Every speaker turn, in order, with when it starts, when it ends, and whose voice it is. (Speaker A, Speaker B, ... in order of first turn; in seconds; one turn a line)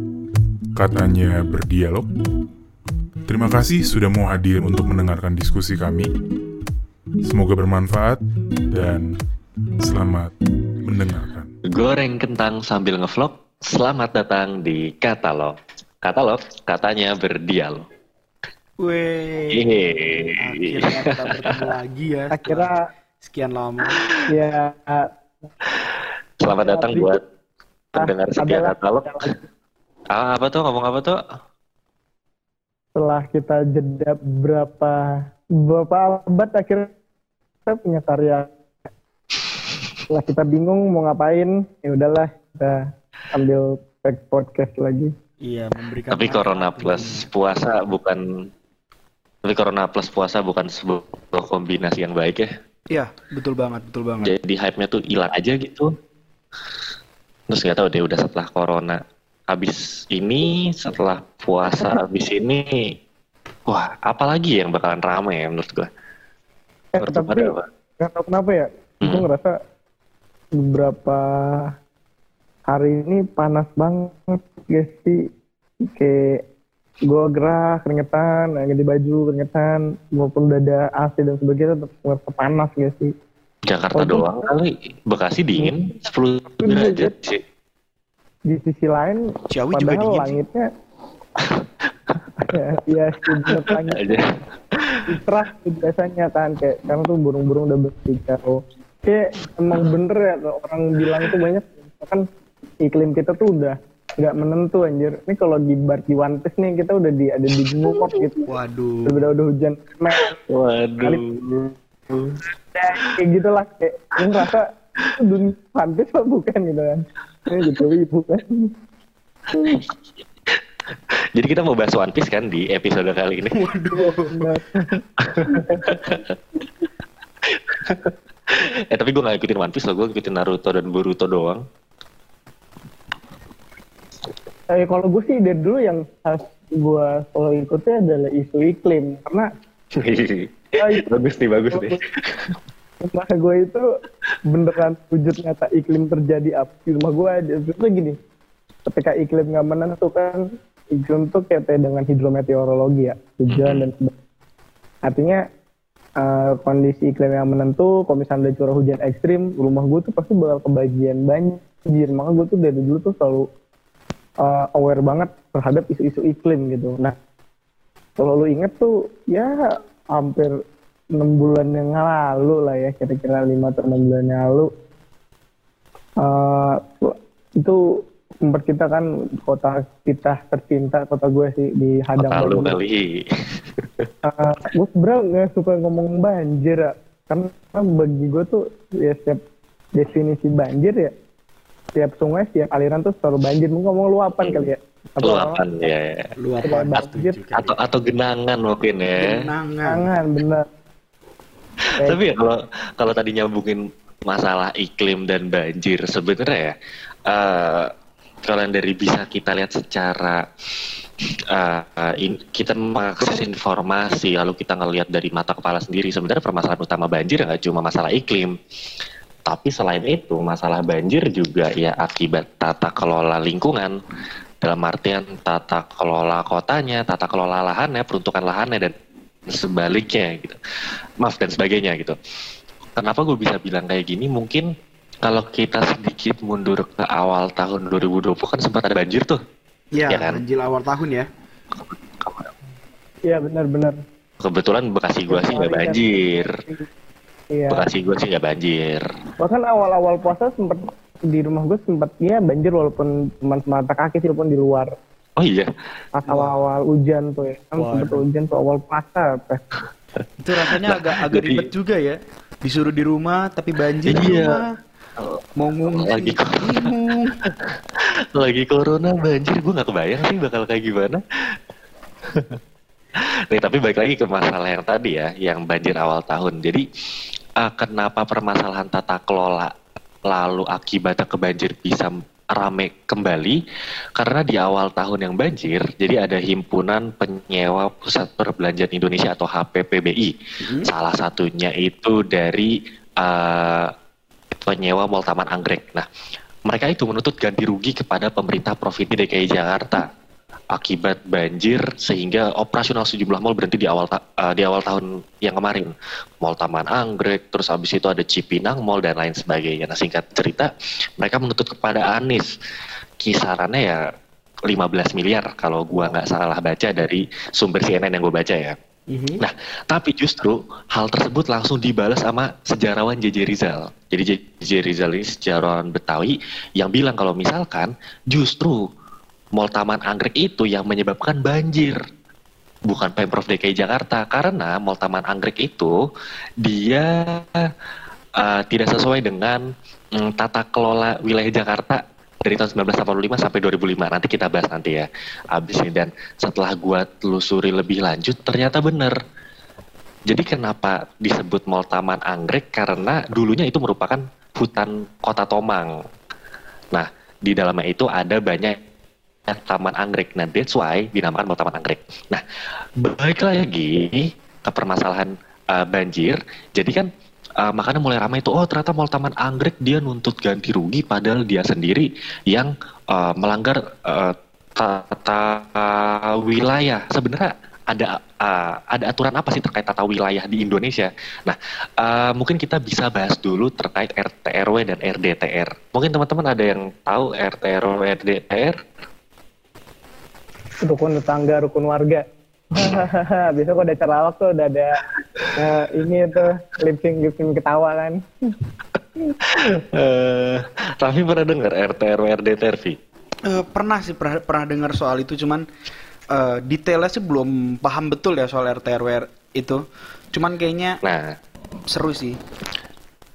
Speaker A: 0.7-2.1
Speaker A: 3.3-6.1
Speaker A: 7.2-9.1
Speaker A: 9.8-11.5
Speaker B: 11.6-17.9
Speaker C: 18.8-22.7
Speaker B: 19.5-21.6
Speaker D: 22.3-22.8
Speaker C: 23.2-24.0
Speaker D: 24.3-25.1
Speaker B: 26.4-27.2
Speaker D: 26.6-27.1
Speaker D: 27.9-29.4
Speaker B: 27.9-29.4
Speaker B: 30.1-31.2
Speaker D: 33.0-35.0
Speaker D: 35.6-36.9
Speaker D: 37.6-38.5
Speaker D: 40.1-45.1
Speaker C: 45.4-47.3
Speaker B: 46.1-48.5
Speaker B: 49.5-52.5
Speaker C: 52.9-54.3
Speaker B: 54.2-55.9
Speaker B: 57.5-62.9
Speaker B: 63.7-65.9
Speaker D: 66.9-69.5
Speaker B: 67.0-67.7
Speaker D: 70.5-71.7
Speaker D: 72.7-75.2
Speaker D: 75.8-76.4
Speaker D: 77.0-83.1
Speaker B: 83.7-87.4
Speaker D: 83.9-84.3
Speaker D: 86.6-87.1
Speaker D: 88.5-90.7
Speaker C: 89.5-90.4
Speaker B: 91.4-92.5
Speaker D: 92.4-94.2
Speaker B: 93.5-95.2
Speaker D: 95.1-102.2
Speaker D: 102.8-108.5
Speaker B: 107.6-108.2
Speaker C: 108.5-109.1
Speaker D: 109.0-110.4
Speaker B: 110.2-112.4
Speaker D: 112.7-118.7
Speaker D: 119.5-119.8
Speaker B: 119.7-119.9
Speaker B: 121.3-123.6
Speaker C: 123.5-124.4
Speaker D: 124.0-126.2
Speaker B: 125.2-126.3
Speaker B: 127.5-131.6
Speaker D: 134.7-139.5
Speaker B: 139.9-142.6
Speaker D: 140.8-141.1
Speaker D: 141.7-142.0
Speaker D: 143.0-143.8
Speaker D: 144.5-148.2
Speaker D: 148.9-154.1
Speaker B: 153.5-153.8
Speaker D: 155.0-155.4
Speaker D: 156.2-163.4
Speaker D: 164.4-167.1
Speaker D: 168.2-169.6
Speaker D: 170.1-170.5
Speaker D: 171.1-174.7
Speaker D: 176.2-177.8
Speaker D: 178.4-182.8
Speaker B: 182.2-184.1
Speaker D: 184.2-189.4
Speaker D: 189.9-191.1
Speaker D: 191.9-195.6
Speaker B: 194.4-194.7
Speaker B: 195.2-196.3
Speaker C: 196.4-197.8
Speaker D: 196.6-197.3
Speaker B: 197.5-199.3
Speaker C: 199.2-200.0
Speaker D: 199.8-200.7
Speaker B: 201.8-206.7
Speaker B: 207.3-207.9
Speaker B: 208.4-210.4
Speaker B: 211.5-218.5
Speaker B: 219.4-224.0
Speaker B: 224.6-228.9
Speaker B: 229.5-230.6
Speaker B: 231.2-232.2
Speaker B: 232.9-234.7
Speaker B: 235.2-239.4
Speaker C: 239.9-241.3
Speaker B: 240.1-240.4
Speaker B: 242.1-242.5
Speaker D: 243.2-243.9
Speaker B: 244.4-246.6
Speaker D: 245.3-246.8
Speaker D: 247.5-247.8
Speaker B: 247.7-249.0
Speaker D: 249.4-254.9
Speaker B: 255.4-255.7
Speaker D: 256.1-259.6
Speaker C: 257.8-258.2
Speaker C: 260.4-264.7
Speaker B: 260.7-261.7
Speaker B: 264.1-264.6
Speaker B: 265.2-266.9
Speaker C: 265.6-267.4
Speaker B: 267.4-271.2
Speaker B: 272.2-272.6
Speaker B: 273.5-276.8
Speaker B: 277.6-279.7
Speaker B: 280.3-283.6
Speaker B: 284.2-293.9
Speaker C: 290.6-290.9
Speaker B: 294.7-296.1
Speaker B: 296.7-300.1
Speaker B: 300.7-312.5
Speaker B: 313.2-314.0
Speaker B: 314.7-318.8
Speaker C: 319.1-319.4
Speaker B: 319.4-328.9
Speaker B: 329.5-332.0
Speaker B: 332.9-336.0
Speaker B: 336.6-337.7
Speaker B: 338.4-349.1
Speaker B: 350.3-355.9
Speaker B: 356.9-358.8
Speaker B: 359.5-362.4
Speaker B: 363.0-367.1
Speaker B: 367.6-388.8
Speaker D: 390.8-392.2
Speaker D: 392.7-395.0
Speaker B: 392.8-393.0
Speaker D: 395.5-398.5
Speaker B: 399.4-403.0
Speaker C: 403.4-405.6
Speaker C: 406.3-411.0
Speaker B: 411.0-411.4
Speaker C: 411.9-412.4